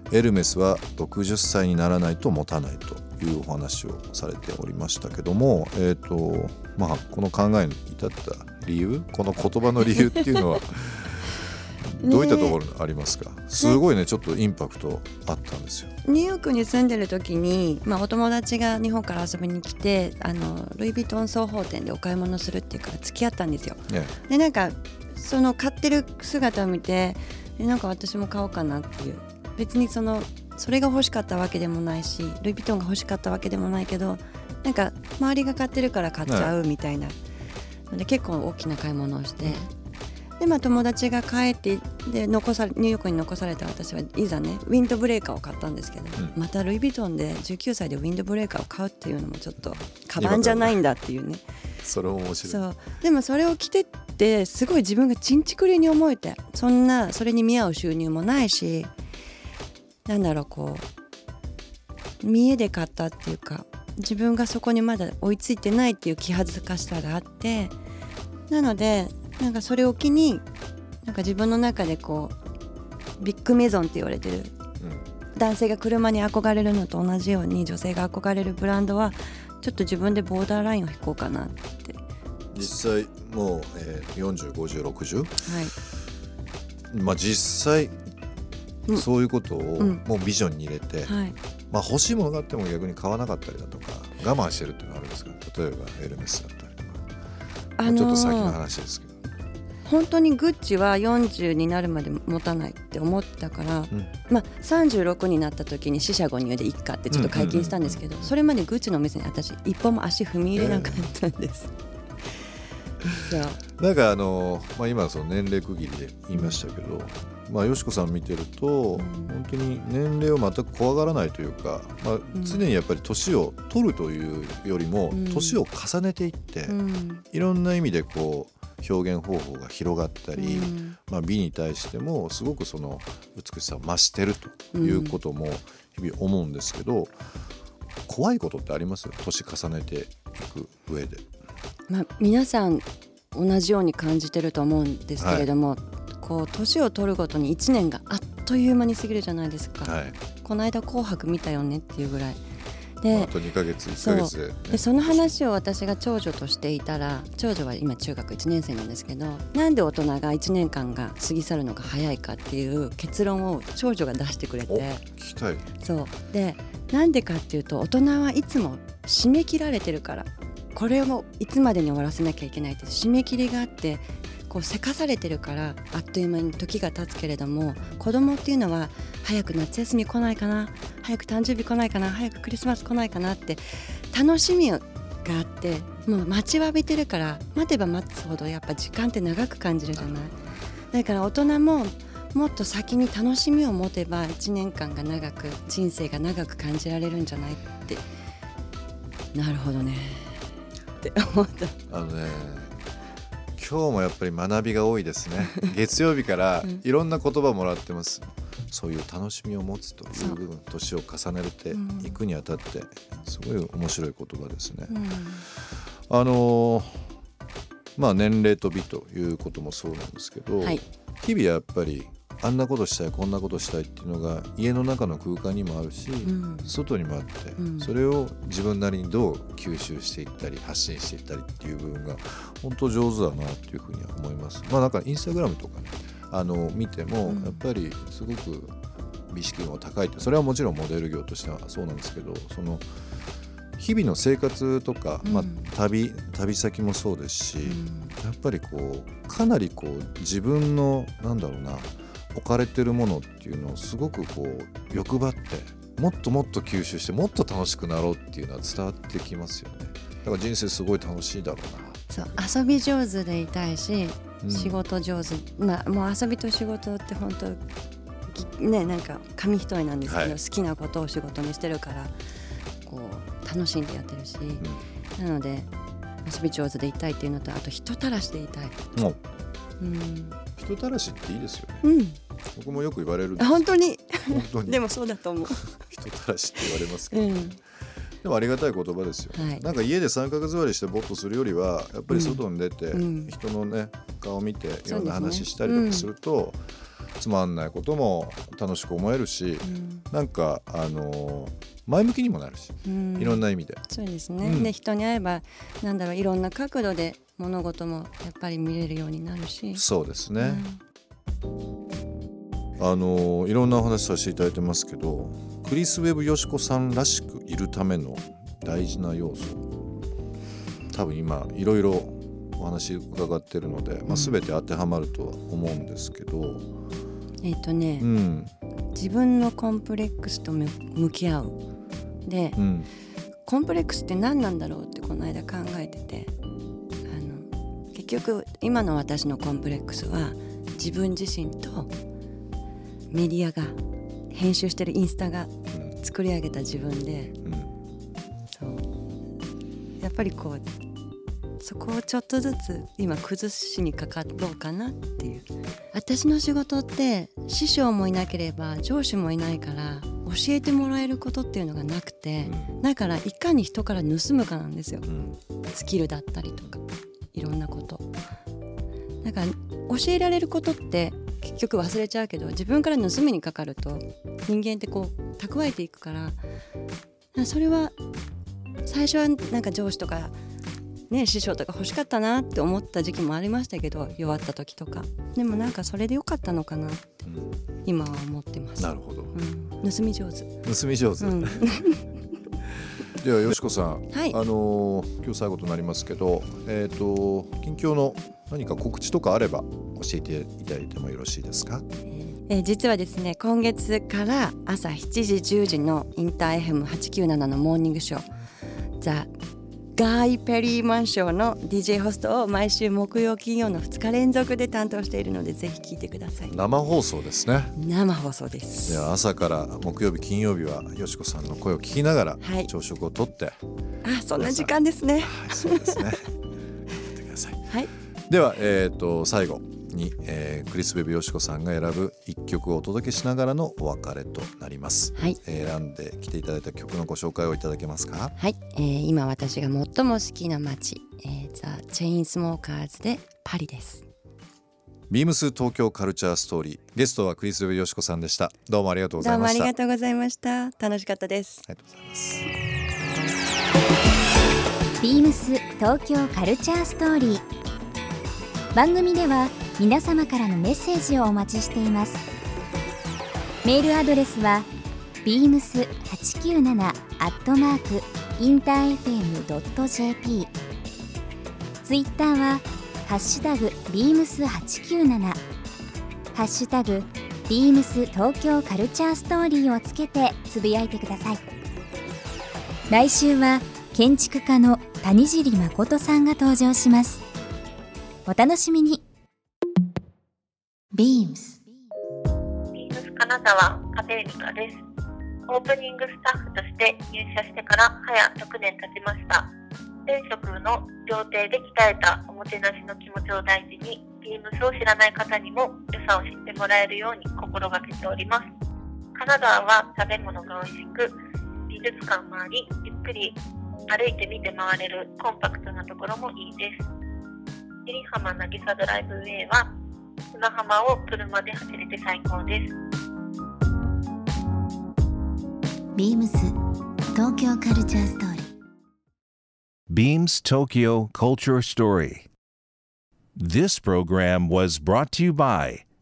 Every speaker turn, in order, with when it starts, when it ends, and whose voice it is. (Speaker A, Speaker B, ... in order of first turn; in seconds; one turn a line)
Speaker A: 0.1-15.9
Speaker B: 12.0-12.6
Speaker B: 16.0-37.2
Speaker A: 23.9-24.1
Speaker A: 36.2-36.5
Speaker B: 37.9-39.7
Speaker B: 40.4-51.4
Speaker A: 50.2-50.8
Speaker A: 51.8-52.7
Speaker B: 52.4-58.9
Speaker B: 60.1-60.9
Speaker B: 62.2-67.8
Speaker B: 68.5-70.4
Speaker B: 71.0-72.3
Speaker B: 73.2-74.5
Speaker A: 74.8-75.1
Speaker B: 75.3-82.0
Speaker A: 82.5-85.4
Speaker B: 85.4-85.8
Speaker A: 86.9-88.0
Speaker B: 88.9-90.0
Speaker A: 88.9-91.2
Speaker B: 91.1-91.3
Speaker A: 91.7-97.1
Speaker B: 97.8-98.6
Speaker A: 97.8-99.2
Speaker B: 99.8-111.7
Speaker A: 107.1-108.3
Speaker A: 110.5-111.1
Speaker B: 113.2-113.6
Speaker A: 113.8-126.8
Speaker B: 118.9-119.3
Speaker B: 122.3-122.6
Speaker B: 125.1-125.6
Speaker B: 126.7-127.2
Speaker A: 127.3-137.1
Speaker B: 130.3-130.9
Speaker B: 134.7-135.2
Speaker A: 138.1-141.2
Speaker B: 141.9-152.4
Speaker A: 145.2-145.5
Speaker A: 149.8-150.2
Speaker B: 153.0-153.4
Speaker A: 153.1-155.3
Speaker B: 153.9-165.0
Speaker A: 164.7-165.7
Speaker B: 165.8-190.4
Speaker B: 190.9-198.0
Speaker B: 199.3-200.4
Speaker B: 201.0-201.8
Speaker A: 201.9-202.8
Speaker A: 203.6-214.9
Speaker B: 211.7-212.2
Speaker B: 214.9-215.4
Speaker A: 215.6-217.0
Speaker A: 217.9-238.8
Speaker B: 226.2-226.8
Speaker B: 227.6-227.9
Speaker B: 237.2-237.6
Speaker A: 239.3-242.9
Speaker A: 243.8-262.1
Speaker B: 245.2-245.6
Speaker B: 247.6-248.1
Speaker B: 262.1-267.6
Speaker A: 264.4-264.8
Speaker B: 268.3-272.1
Speaker A: 270.1-270.4
Speaker B: 272.9-274.6
Speaker B: 275.2-275.7
Speaker B: 276.2-278.8
Speaker B: 279.8-280.4
Speaker A: 280.6-281.9
Speaker B: 281.8-282.2
Speaker A: 282.6-283.6
Speaker B: 283.4-285.8
Speaker A: 284.3-284.9
Speaker A: 285.4-287.6
Speaker B: 287.1-287.6
Speaker A: 288.2-296.6
Speaker B: 289.3-289.6
Speaker B: 292.1-293.4
Speaker B: 294.9-296.1
Speaker A: 297.2-303.8
Speaker B: 299.6-300.0
Speaker B: 302.9-310.8
Speaker A: 304.4-304.7
Speaker A: 309.7-310.6
Speaker A: 312.8-319.6
Speaker A: 320.9-326.6
Speaker B: 324.1-324.4
Speaker B: 327.4-328.1
Speaker A: 328.0-328.5
Speaker B: 328.9-331.6
Speaker B: 332.2-332.6
Speaker A: 332.6-332.9
Speaker B: 333.4-336.3
Speaker B: 337.1-341.9
Speaker B: 343.1-343.8
Speaker B: 344.3-347.4
Speaker A: 345.7-346.0
Speaker A: 347.4-347.7
Speaker B: 348.5-348.9
Speaker B: 350.0-350.6
Speaker B: 351.6-365.1
Speaker A: 362.4-362.8
Speaker A: 365.1-365.4
Speaker B: 365.7-366.8
Speaker B: 367.3-368.1
Speaker B: 369.2-376.4
Speaker B: 377.4-377.9
Speaker B: 378.9-380.4
Speaker B: 381.1-387.0
Speaker A: 387.2-387.6
Speaker B: 387.9-390.5
Speaker A: 388.8-389.3
Speaker A: 390.6-391.7
Speaker B: 391.2-392.0
Speaker A: 393.0-401.9
Speaker B: 402.1-408.2
Speaker B: 409.0-409.3
Speaker B: 410.0-416.5
Speaker A: 416.5-417.7
Speaker B: 417.8-419.1
Speaker A: 418.9-423.6
Speaker B: 422.4-422.7
Speaker B: 424.0-426.0
Speaker A: 424.4-426.4
Speaker A: 426.9-427.7
Speaker A: 428.3-438.3
Speaker B: 438.4-444.0
Speaker A: 445.1-449.7
Speaker B: 449.2-451.6
Speaker A: 451.7-452.5
Speaker C: 455.0-457.4
Speaker C: 458.7-462.2
Speaker C: 463.6-464.7
Speaker C: 465.2-470.5
Speaker C: 471.8-475.4
Speaker C: 476.3-481.4
Speaker C: 482.9-487.2
Speaker C: 488.2-489.0
Speaker D: 490.9-491.6
Speaker E: 492.8-494.8
Speaker E: 495.5-499.5
Speaker E: 500.1-508.4
Speaker E: 509.2-511.1
Speaker E: 511.7-513.4
Speaker E: 513.9-516.8
Speaker E: 517.9-519.7
Speaker E: 520.4-522.6
Speaker D: 526.0-526.5
Speaker D: 527.1-528.5
Speaker F: 529.9-532.3
Speaker F: 533.4-535.9